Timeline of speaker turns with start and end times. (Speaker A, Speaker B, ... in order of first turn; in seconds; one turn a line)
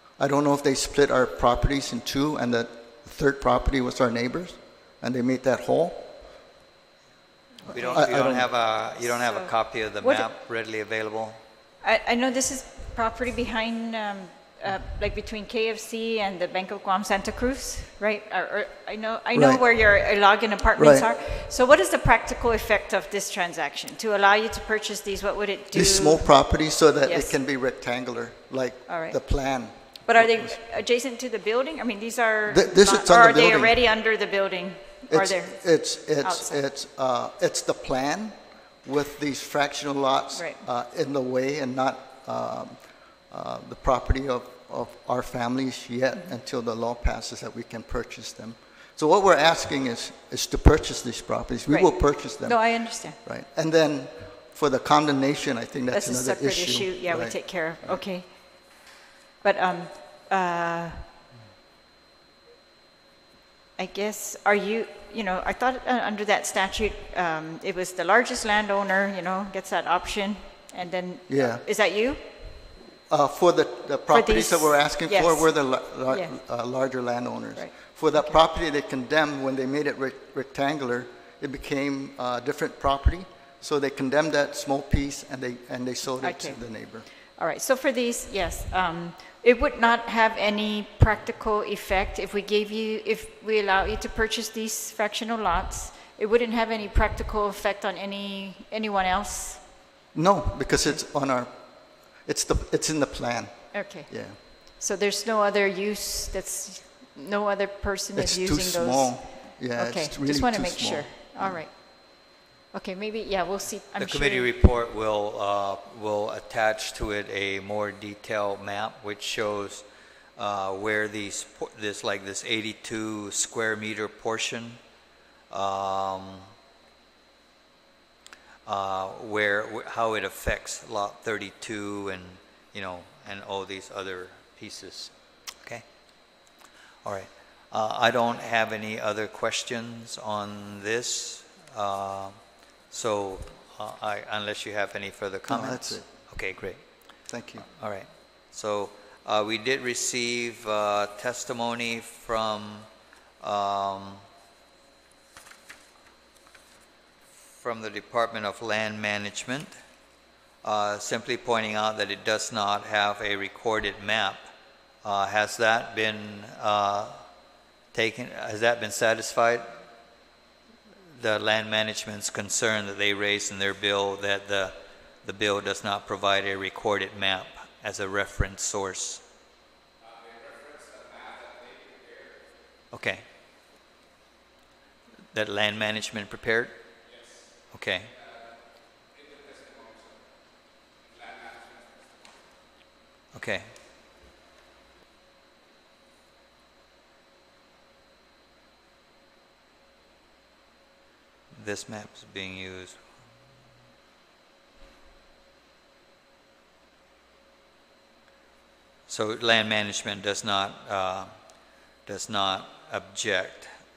Speaker A: 0.2-6.1
Speaker B: 7.7-11.4
Speaker A: 7.7-8.5
Speaker C: 9.0-10.3
Speaker C: 11.8-26.3
Speaker A: 19.3-19.6
Speaker A: 20.8-21.1
Speaker A: 25.7-30.5
Speaker C: 27.1-27.3
Speaker C: 28.9-29.2
Speaker C: 30.1-36.6
Speaker A: 32.5-33.8
Speaker A: 35.1-42.8
Speaker C: 40.3-40.6
Speaker A: 43.3-58.0
Speaker C: 51.7-53.2
Speaker C: 55.9-58.3
Speaker C: 59.4-61.0
Speaker C: 63.8-72.2
Speaker A: 71.3-71.7
Speaker A: 73.1-87.1
Speaker C: 74.1-75.5
Speaker C: 76.1-76.4
Speaker C: 77.6-78.3
Speaker C: 86.2-86.6
Speaker C: 87.3-99.7
Speaker A: 100.1-101.5
Speaker A: 102.2-104.4
Speaker C: 103.7-114.5
Speaker A: 108.2-111.6
Speaker B: 114.0-119.8
Speaker B: 120.4-124.8
Speaker B: 125.5-126.5
Speaker B: 128.7-135.1
Speaker B: 137.0-142.3
Speaker B: 142.9-146.8
Speaker A: 145.5-146.1
Speaker A: 147.3-147.7
Speaker B: 147.7-152.9
Speaker B: 153.4-154.2
Speaker B: 157.6-159.7
Speaker B: 160.6-164.4
Speaker B: 165.0-167.2
Speaker B: 167.9-169.7
Speaker B: 171.2-179.2
Speaker B: 182.9-183.2
Speaker B: 185.3-186.8
Speaker B: 187.7-188.2
Speaker B: 193.3-193.7
Speaker B: 201.5-203.0
Speaker B: 209.1-211.3
Speaker B: 212.1-213.7